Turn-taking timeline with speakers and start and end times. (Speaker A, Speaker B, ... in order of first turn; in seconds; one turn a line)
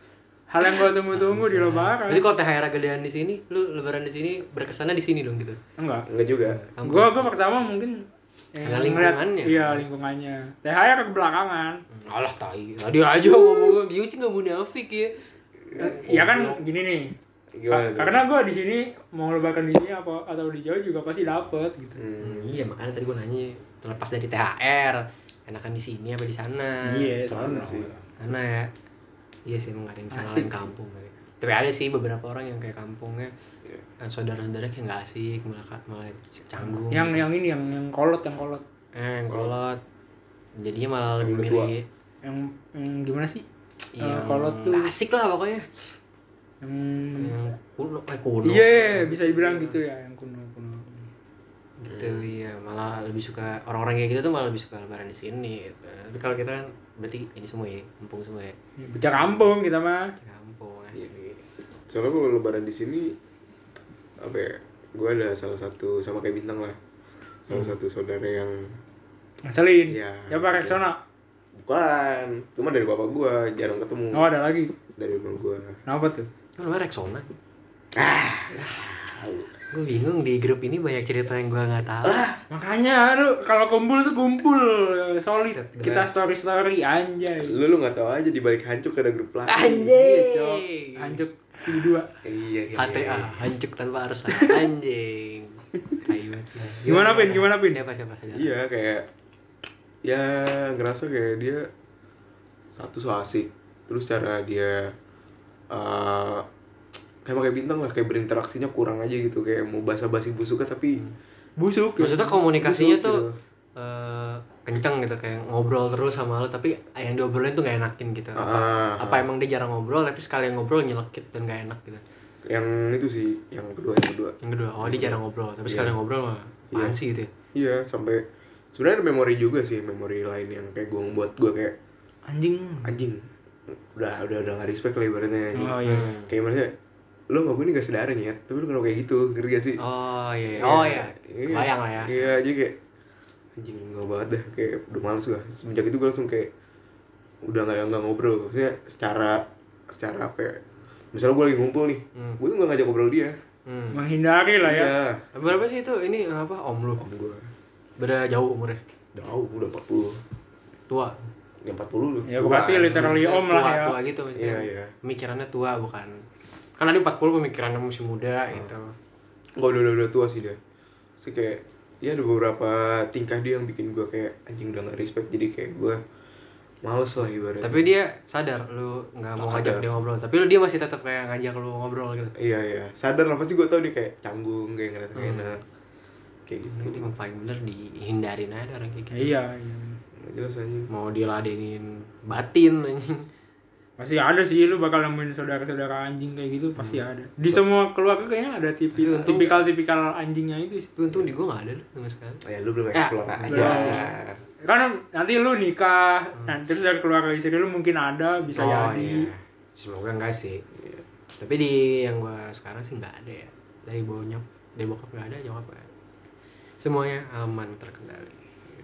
Speaker A: 0.5-2.2
Speaker B: 1.1-5.6
Speaker A: 5.8-6.1
Speaker C: 6.1-6.6
Speaker B: 6.4-7.4
Speaker A: 6.8-8.0
Speaker A: 8.6-11.8
Speaker B: 8.6-9.8
Speaker B: 11.9-15.2
Speaker B: 15.7-16.6
Speaker A: 15.8-17.1
Speaker C: 17.5-18.2
Speaker A: 17.7-22.0
Speaker C: 22.0-22.6
Speaker B: 22.2-27.2
Speaker A: 26.8-28.0
Speaker C: 27.2-27.9
Speaker B: 28.2-28.7
Speaker B: 29.5-33.3
Speaker A: 30.1-30.7
Speaker B: 34.0-37.2
Speaker A: 36.9-38.6
Speaker B: 39.0-39.8
Speaker B: 40.6-41.9
Speaker C: 41.2-41.7
Speaker A: 42.2-43.4
Speaker B: 43.9-45.7
Speaker A: 44.0-44.9
Speaker A: 46.6-47.4
Speaker B: 47.2-49.8
Speaker A: 48.5-51.1
Speaker B: 51.8-58.6
Speaker C: 51.9-52.3
Speaker A: 58.8-60.1
Speaker B: 60.2-61.4
Speaker C: 61.9-63.2
Speaker C: 64.2-66.8
Speaker C: 67.5-68.8
Speaker A: 69.5-71.0
Speaker C: 69.9-70.8
Speaker C: 71.6-74.3
Speaker A: 74.1-74.7
Speaker C: 75.0-75.8
Speaker A: 75.9-76.3
Speaker B: 76.6-77.3
Speaker C: 78.0-79.5
Speaker B: 79.7-82.2
Speaker C: 82.0-82.4
Speaker A: 82.5-87.6
Speaker B: 85.4-86.1
Speaker C: 87.4-90.0
Speaker B: 89.5-91.2
Speaker A: 89.8-92.1
Speaker C: 92.2-93.5
Speaker B: 92.8-98.5
Speaker A: 96.8-97.8
Speaker C: 98.3-99.1
Speaker C: 100.0-101.7
Speaker C: 102.7-104.9
Speaker C: 105.7-106.5
Speaker C: 107.2-111.0
Speaker A: 111.6-112.4
Speaker B: 112.0-113.2
Speaker C: 112.6-113.4
Speaker B: 113.8-122.0
Speaker C: 118.4-119.2
Speaker C: 122.5-125.9
Speaker B: 124.4-127.3
Speaker C: 126.7-127.0
Speaker C: 127.5-131.8
Speaker A: 132.3-132.9
Speaker C: 132.8-136.7
Speaker A: 135.6-136.1
Speaker B: 135.8-136.3
Speaker C: 137.3-139.8
Speaker B: 139.8-142.3
Speaker C: 140.5-142.8
Speaker C: 143.6-146.5
Speaker C: 147.4-150.6
Speaker C: 151.1-153.4
Speaker B: 153.7-154.0
Speaker A: 153.9-154.9
Speaker C: 154.6-155.2
Speaker B: 155.3-157.1
Speaker C: 157.0-157.5
Speaker B: 158.0-158.8
Speaker C: 159.2-160.2
Speaker B: 160.9-161.3
Speaker C: 161.6-163.2
Speaker A: 162.3-163.9
Speaker B: 162.4-166.2
Speaker C: 164.4-164.9
Speaker B: 166.8-168.9
Speaker C: 169.6-170.6
Speaker C: 171.2-176.0
Speaker C: 176.8-177.9
Speaker B: 177.6-182.3
Speaker C: 179.4-179.8
Speaker C: 182.4-185.6
Speaker B: 185.2-185.6
Speaker C: 186.5-187.1
Speaker B: 186.7-189.3
Speaker A: 189.1-190.0
Speaker C: 190.2-190.9
Speaker B: 190.9-193.3
Speaker A: 194.0-200.9
Speaker B: 198.9-199.6
Speaker C: 199.3-199.6
Speaker B: 201.0-202.4
Speaker C: 202.4-204.4
Speaker B: 202.9-204.1
Speaker A: 203.5-204.1
Speaker A: 204.6-209.3
Speaker B: 208.5-210.6
Speaker C: 210.8-211.0
Speaker B: 211.4-215.9
Speaker B: 216.8-218.4